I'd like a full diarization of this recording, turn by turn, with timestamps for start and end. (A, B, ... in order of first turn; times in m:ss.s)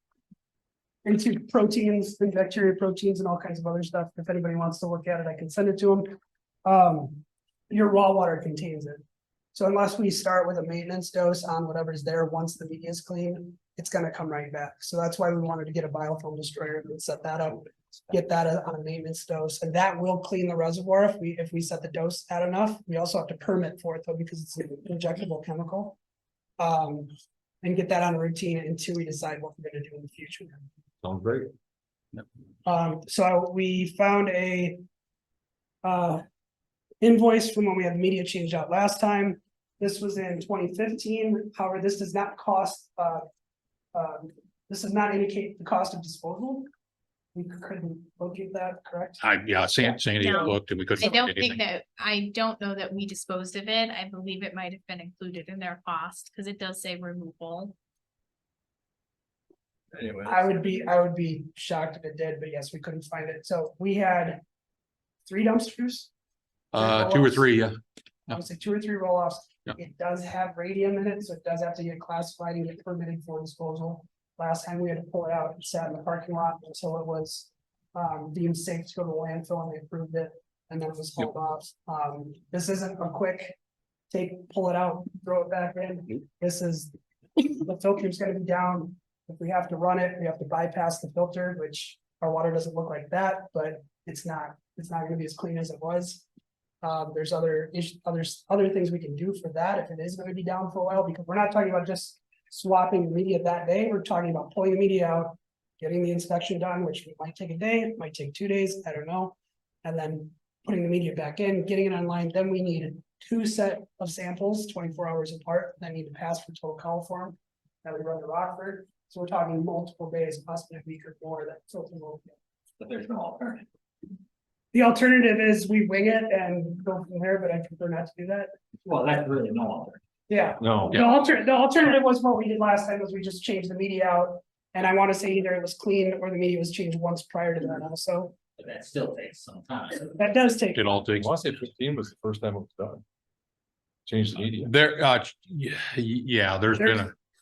0:01.0-0:09.0 A
0:09.5-0:26.0 A
0:26.6-0:30.6 A
0:31.0-0:31.5 B
0:32.6-0:34.8 A
0:35.8-0:36.2 A
0:37.0-0:43.2 A
0:43.9-0:46.7 A
0:47.4-0:49.2 A
0:49.2-0:51.6 C
0:49.8-0:50.5 A
0:50.2-0:57.7 D
1:00.2-1:04.4 A
1:05.2-1:06.1 A
1:06.7-1:07.6 A
1:06.7-1:07.7 C
1:08.3-1:23.6 A
1:24.1-1:36.2 A
1:36.8-2:02.3 A
2:02.8-2:03.7 E
2:04.7-2:08.5 A
2:08.8-2:10.0 E
2:10.3-2:18.4 A
2:10.6-2:11.0 B
2:18.6-2:20.2 E
2:20.2-2:20.9 A
2:20.7-2:21.3 C
2:21.2-2:23.0 B
2:24.1-2:24.7 B
2:24.6-2:27.1 C
2:26.8-2:27.1 A